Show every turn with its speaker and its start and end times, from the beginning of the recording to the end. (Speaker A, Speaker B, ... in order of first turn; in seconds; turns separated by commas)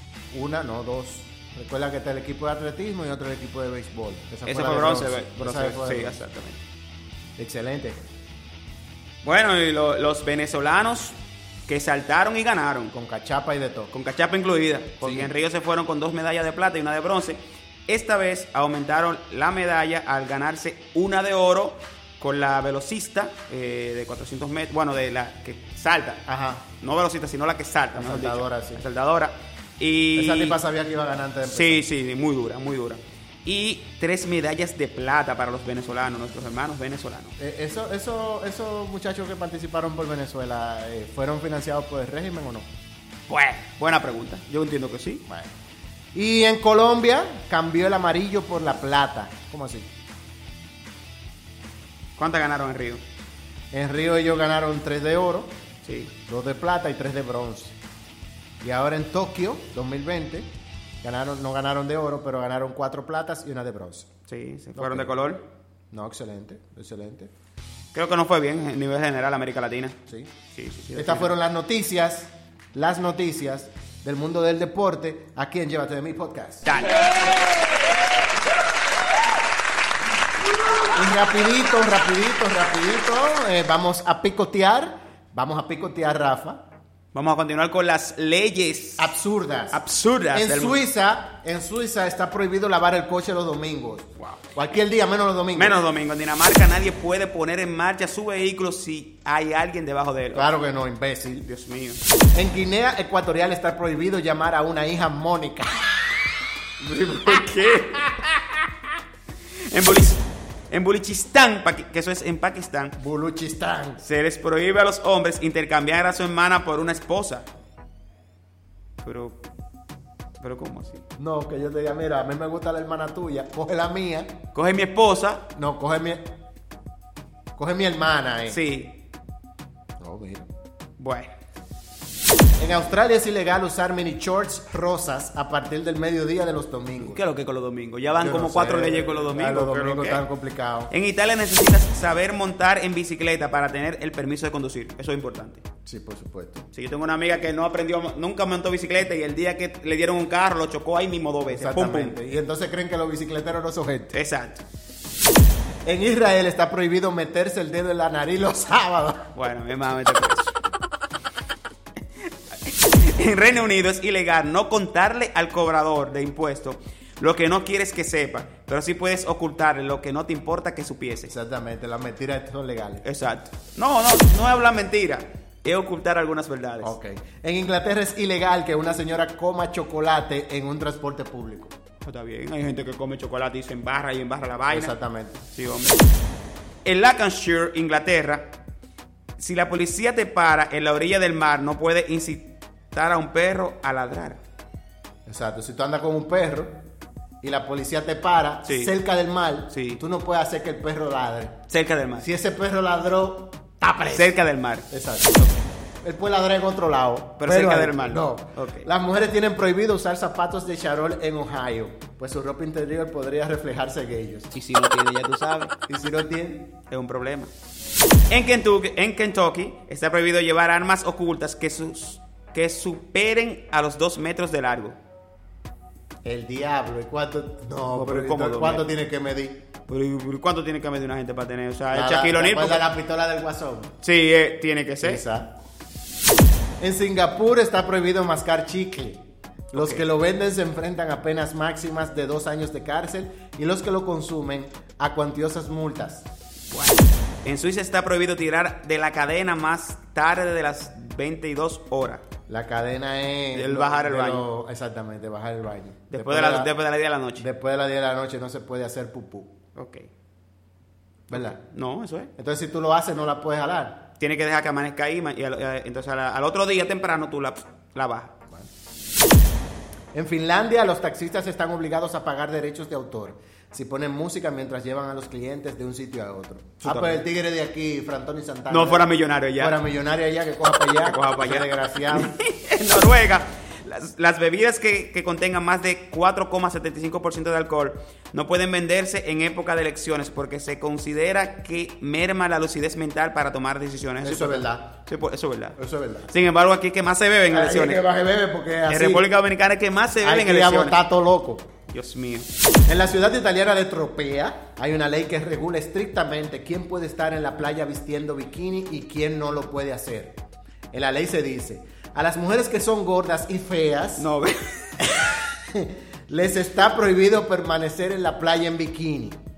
Speaker A: 0.3-6.2, Speaker B: 4.5-6.6, Speaker A: 7.4-8.0, Speaker B: 9.2-11.2, Speaker B: 11.7-12.9, Speaker A: 12.9-13.9, Speaker B: 13.9-26.2, Speaker A: 15.0-15.3, Speaker A: 26.3-26.6, Speaker B: 26.8-30.6, Speaker A: 27.9-28.8, Speaker A: 30.1-31.8, Speaker B: 31.4-37.3, Speaker A: 37.4-42.7, Speaker B: 43.3-45.2, Speaker A: 45.3-45.5, Speaker A: 46.1-49.9, Speaker B: 52.2-53.0, Speaker A: 53.7-55.6, Speaker B: 55.8-56.1, Speaker A: 56.3-57.8, Speaker A: 58.6-64.1, Speaker B: 64.3-65.4, Speaker A: 64.7-65.1, Speaker A: 65.9-67.3, Speaker B: 67.9-70.0, Speaker B: 70.5-71.3, Speaker A: 70.9-76.7, Speaker B: 76.7-77.2, Speaker A: 80.9-86.6, Speaker B: 87.1-89.1, Speaker A: 89.0-89.8, Speaker B: 89.7-90.8, Speaker A: 90.3-95.8, Speaker B: 95.5-100.5, Speaker A: 100.3-101.5, Speaker B: 101.5-102.0, Speaker A: 102.3-106.2, Speaker B: 106.8-108.5, Speaker B: 109.7-113.0, Speaker A: 113.0-114.0, Speaker B: 114.0-117.5, Speaker B: 119.0-119.4, Speaker B: 120.4-121.0, Speaker A: 121.2-124.4, Speaker B: 124.5-125.5, Speaker A: 125.5-126.3, Speaker A: 127.5-128.6, Speaker B: 128.5-129.0, Speaker A: 130.0-130.5, Speaker B: 131.0-131.3, Speaker A: 132.6-137.2, Speaker B: 137.0-140.2, Speaker A: 138.1-140.9, Speaker B: 140.9-145.6, Speaker A: 145.8-146.7, Speaker B: 146.7-152.2, Speaker A: 151.4-154.1, Speaker B: 154.1-154.6, Speaker A: 155.8-159.3, Speaker B: 159.3-160.6, Speaker B: 162.6-171.3, Speaker A: 171.3-173.0, Speaker B: 173.0-176.9, Speaker A: 176.8-181.7, Speaker B: 182.0-186.0, Speaker A: 184.7-185.4, Speaker B: 186.8-188.5, Speaker B: 189.4-194.4, Speaker A: 195.2-196.8, Speaker A: 197.4-201.7, Speaker B: 198.6-198.9, Speaker B: 199.7-200.0, Speaker B: 201.7-202.3, Speaker A: 202.2-204.4, Speaker B: 204.1-205.6, Speaker A: 204.9-205.4, Speaker A: 206.0-214.5, Speaker B: 207.4-208.9, Speaker B: 214.5-215.7, Speaker A: 215.9-216.7, Speaker B: 216.9-217.5, Speaker B: 218.3-225.0, Speaker A: 226.2-229.6, Speaker B: 227.9-228.9, Speaker B: 229.9-232.8, Speaker A: 231.9-233.9, Speaker B: 234.0-235.2, Speaker A: 235.0-235.5, Speaker A: 236.8-246.3, Speaker B: 239.7-240.0, Speaker B: 246.7-252.2, Speaker A: 252.5-256.7, Speaker B: 253.5-254.5, Speaker B: 256.1-257.5, Speaker A: 257.4-259.6, Speaker B: 259.7-260.1, Speaker A: 261.3-261.6, Speaker B: 261.3-262.3, Speaker A: 262.4-264.1, Speaker B: 264.2-268.3, Speaker A: 270.1-282.3, Speaker B: 276.8-277.2, Speaker B: 278.7-279.8, Speaker B: 281.0-295.8, Speaker A: 294.2-294.9, Speaker A: 295.8-296.3, Speaker B: 296.3-298.0, Speaker A: 297.5-299.3, Speaker B: 298.9-301.0, Speaker A: 300.2-301.7, Speaker B: 301.9-302.5, Speaker A: 302.9-310.4, Speaker A: 310.9-314.3, Speaker B: 314.2-315.2, Speaker A: 315.4-319.4